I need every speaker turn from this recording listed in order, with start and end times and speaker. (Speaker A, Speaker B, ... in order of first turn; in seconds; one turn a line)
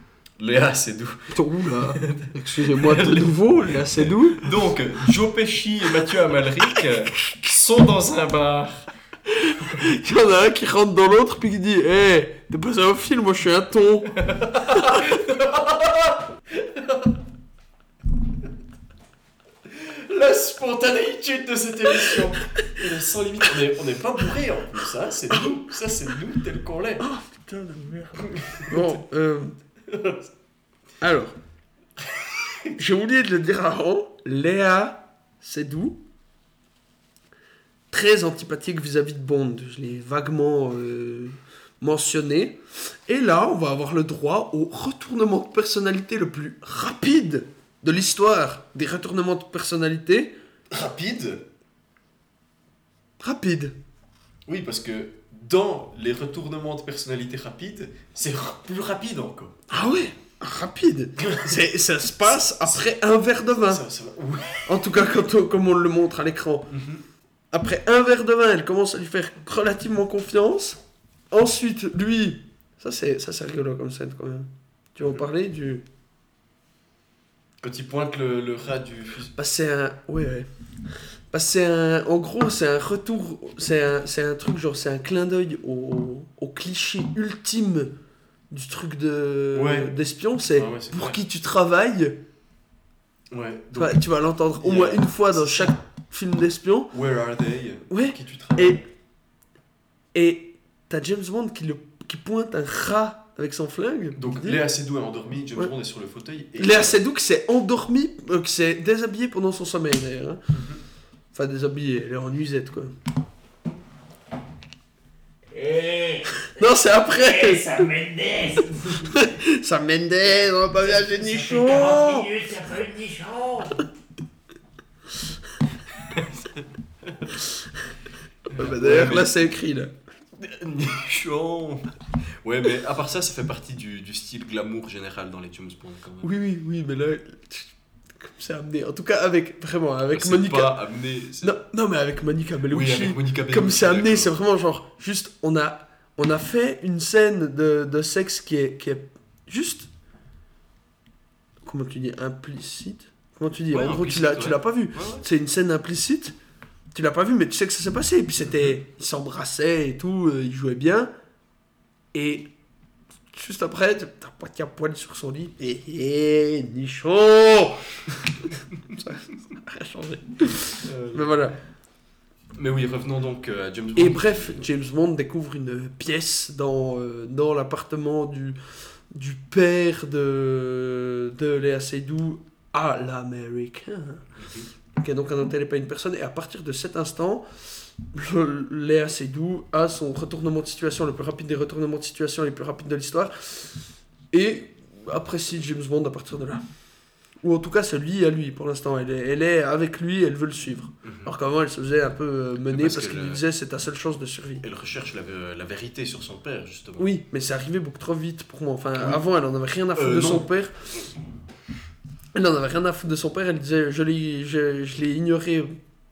Speaker A: 0.4-8.9
Speaker B: 1.3-4.5
Speaker B: 9.4-14.2
Speaker A: 14.2-17.1
Speaker A: 19.7-27.1
Speaker B: 25.3-25.6
Speaker B: 27.0-29.6
Speaker A: 28.3-29.0
Speaker A: 29.9-30.3
Speaker B: 31.0-31.4
Speaker B: 32.7-36.0
Speaker B: 37.9-50.3
Speaker A: 50.7-51.5
Speaker B: 53.2-53.8
Speaker A: 54.5-59.6
Speaker B: 59.7-63.8
Speaker A: 61.2-61.7
Speaker A: 62.2-62.9
Speaker A: 63.6-65.2
Speaker B: 64.7-66.7
Speaker A: 66.7-67.0
Speaker B: 67.5-75.8
Speaker A: 77.6-79.3
Speaker B: 79.3-80.5
Speaker B: 81.3-87.9
Speaker B: 88.5-92.2
Speaker A: 89.5-90.0
Speaker A: 90.5-91.2
Speaker A: 93.3-94.0
Speaker B: 93.8-96.9
Speaker A: 94.6-95.7
Speaker A: 96.9-98.8
Speaker B: 97.9-98.8
Speaker B: 100.1-104.6
Speaker A: 104.1-107.0
Speaker B: 106.5-110.4
Speaker A: 110.5-110.8
Speaker B: 111.3-112.9
Speaker C: 115.5-116.4
Speaker B: 116.4-117.9
Speaker C: 117.4-118.7
Speaker B: 118.9-122.4
Speaker C: 121.4-123.8
Speaker A: 126.0-127.4
Speaker A: 128.5-129.3
Speaker B: 128.5-129.9
Speaker A: 130.4-136.3
Speaker B: 136.2-140.8
Speaker A: 140.1-141.6
Speaker B: 141.4-149.9
Speaker A: 142.7-144.4
Speaker B: 151.6-156.3
Speaker A: 153.7-155.2
Speaker B: 156.9-161.1
Speaker B: 162.1-162.5
Speaker B: 163.3-171.6
Speaker A: 170.8-171.4
Speaker A: 172.5-174.7
Speaker B: 173.9-184.2
Speaker A: 184.4-184.7
Speaker B: 184.9-196.6
Speaker B: 197.4-204.6
Speaker A: 201.0-201.3
Speaker A: 202.6-203.4
Speaker A: 204.6-207.1
Speaker B: 207.0-211.0
Speaker A: 208.9-209.2
Speaker A: 209.9-210.5
Speaker B: 212.3-215.8